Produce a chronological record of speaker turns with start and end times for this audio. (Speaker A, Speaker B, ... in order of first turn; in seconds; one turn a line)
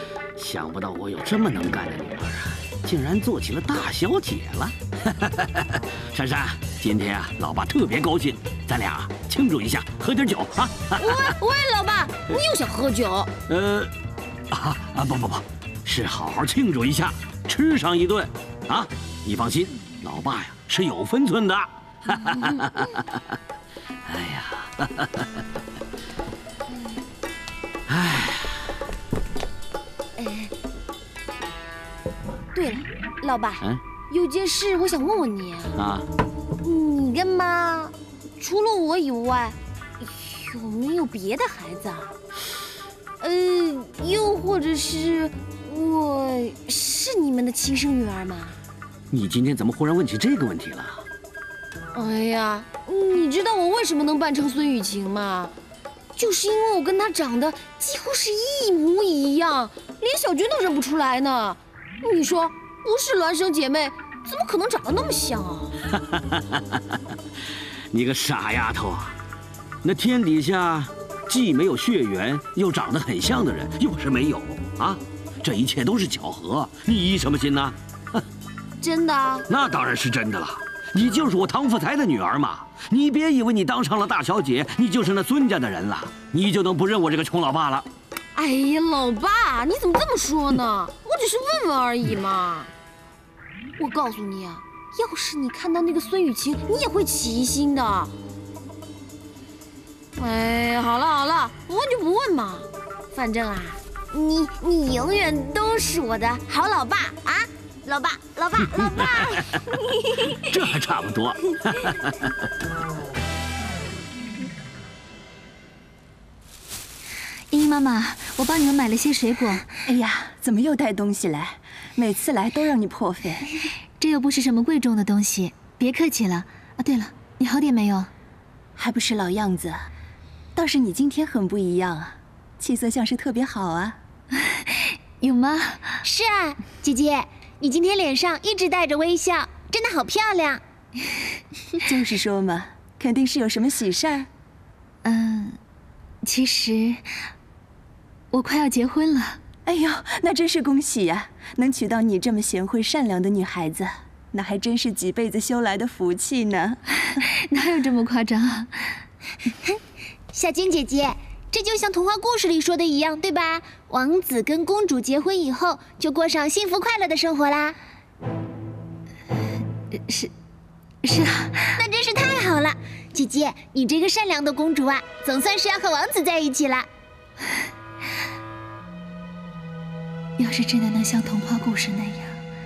Speaker A: 0.4-5.6
Speaker A: 6.1-11.2
Speaker B: 11.0-13.3
Speaker A: 13.5-13.9
Speaker A: 14.5-22.9
Speaker A: 24.1-25.1
Speaker A: 27.9-28.5
Speaker B: 30.2-30.5
Speaker B: 32.5-35.8
Speaker A: 35.8-36.1
Speaker B: 36.6-42.1
Speaker B: 43.2-48.5
Speaker A: 49.1-51.0
Speaker B: 51.9-55.5
Speaker B: 56.2-65.8
Speaker A: 66.1-66.6
Speaker A: 67.9-69.1
Speaker A: 69.8-77.7
Speaker B: 78.8-79.5
Speaker A: 79.5-87.9
Speaker B: 88.3-92.7
Speaker B: 93.8-98.1
Speaker B: 100.2-110.4
Speaker A: 110.5-112.1
Speaker C: 117.5-119.8
Speaker D: 119.9-123.5
Speaker C: 124.0-128.1
Speaker D: 128.8-129.8
Speaker D: 130.5-134.0
Speaker C: 134.3-136.0
Speaker E: 136.0-140.6
Speaker D: 141.8-144.3
Speaker C: 145.0-145.6
Speaker C: 146.2-147.1
Speaker C: 148.3-149.4
Speaker D: 149.7-156.8
Speaker C: 157.1-159.0
Speaker E: 160.3-167.8
Speaker C: 171.0-171.6
Speaker E: 171.7-176.9
Speaker C: 180.4-182.4